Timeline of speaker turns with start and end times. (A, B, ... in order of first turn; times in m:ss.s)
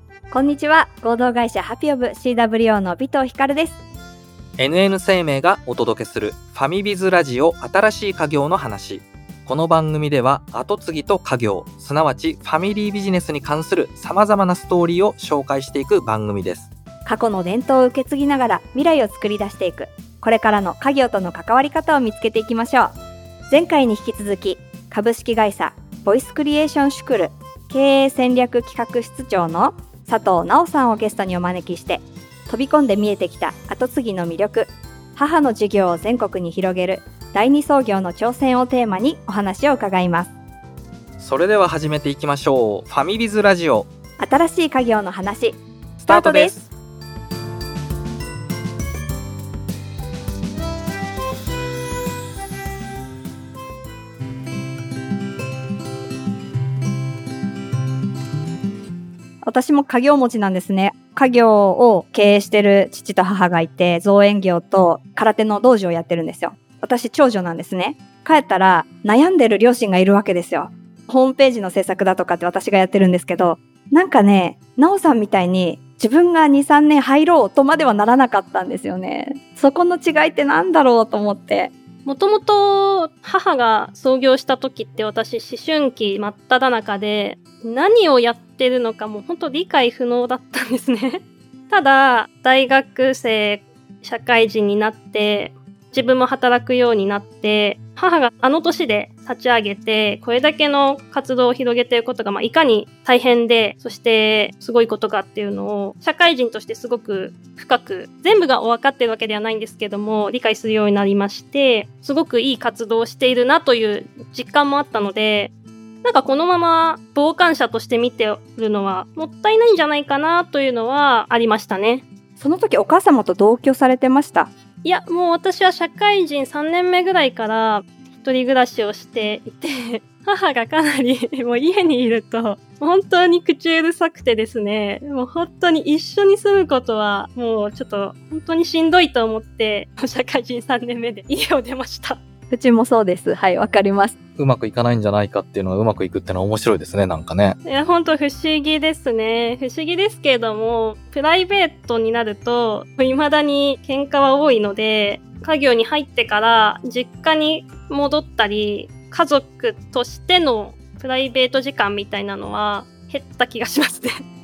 0:00.3-0:03.8 A
0:04.6-0:16.7 B
0:17.0-0:22.9 A
0:23.5-0:40.3 A
0:41.2-0:43.9 B
0:44.2-0:46.6 A
0:46.0-0:46.7 B
0:59.4-1:21.7 A
1:22.0-1:55.5 C
1:56.0-2:02.0 C
2:02.4-2:04.5 A
2:04.8-2:22.2 C
2:22.5-2:24.2 A
2:24.4-2:27.6 B
2:27.6-2:44.1 C